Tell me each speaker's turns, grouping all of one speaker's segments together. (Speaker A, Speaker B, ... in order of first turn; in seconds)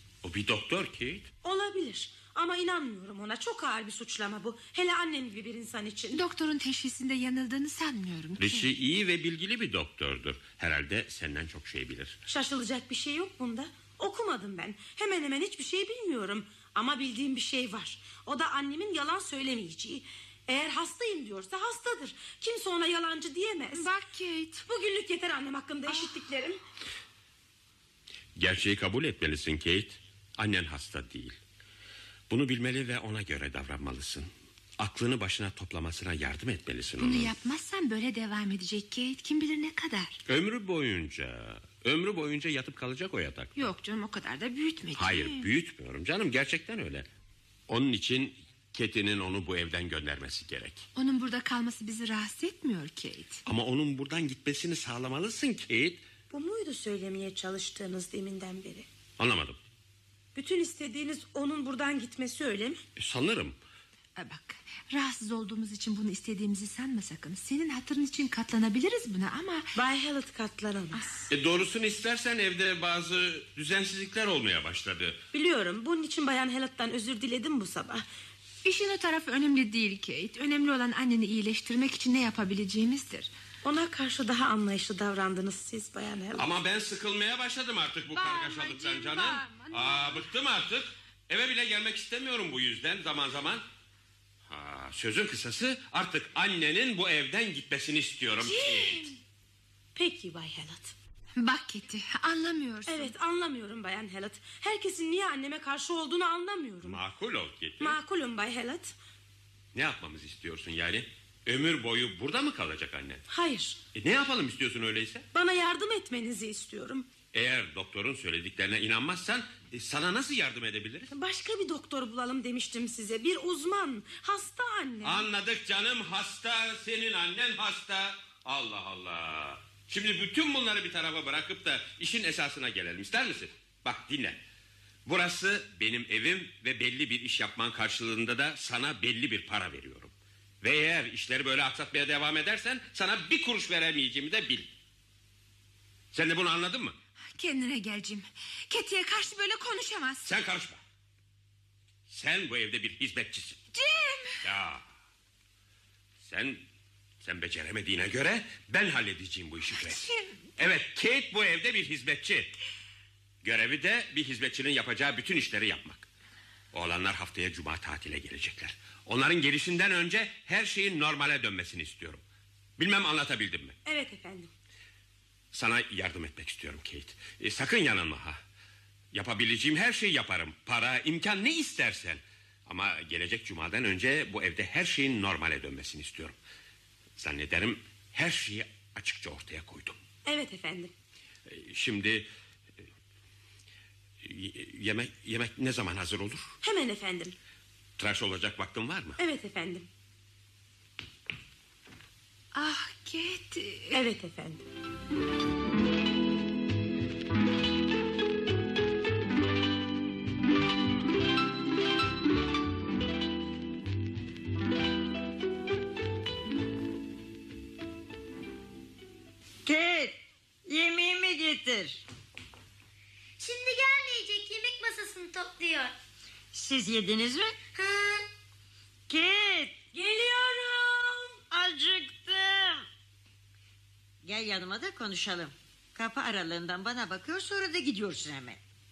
Speaker A: 0.2-1.3, 8.4-12.2, 28.4-31.4, 32.3-37.3, 40.3-43.7, 45.0-47.1, 47.7-50.9, 53.5-56.0, 59.2-59.6, 63.0-63.6, 71.3-75.2, 86.4-93.7, 94.5-99.1, 106.8-108.0, 109.7-113.2, 113.9-115.3, 117.3-121.1, 125.0-134.4, 135.1-144.7, 146.1-147.0, 150.2-150.8, 152.1-153.6, 154.4-154.8, 156.2-156.7, 157.2-160.0, 160.6-162.5, 163.4-166.1, 166.7-172.2, 172.8-173.8, 175.5-178.4, 179.1-186.4, 187.2-190.0, 191.5-192.3, 194.2-196.5, 198.0-199.2
Speaker B: 1.4-6.2, 12.3-23.9, 24.7-26.6, 56.3-58.9, 60.4-62.8, 69.8-71.3, 75.3-78.0, 83.6-86.5, 100.0-101.0, 102.9-107.0, 107.8-108.9, 113.3-113.8, 115.3-117.1, 121.1-125.3, 173.8-174.5, 190.3-190.9, 196.6-197.3, 199.2-199.9, 203.9-204.6, 229.9-231.4
Speaker C: 6.1-8.7, 23.7-24.6, 37.0-40.2, 43.6-45.5, 51.0-53.4, 64.2-69.7, 78.6-83.3, 88.1-90.3, 98.4-99.2, 101.4-103.1, 147.3-150.3, 153.7-154.4, 159.7-160.4, 202.5-204.0
Speaker D: 219.7-222.0, 226.5-227.6, 229.1-229.8, 231.5-232.8, 234.2-238.6
Speaker E: 223.4-225.9, 227.8-228.3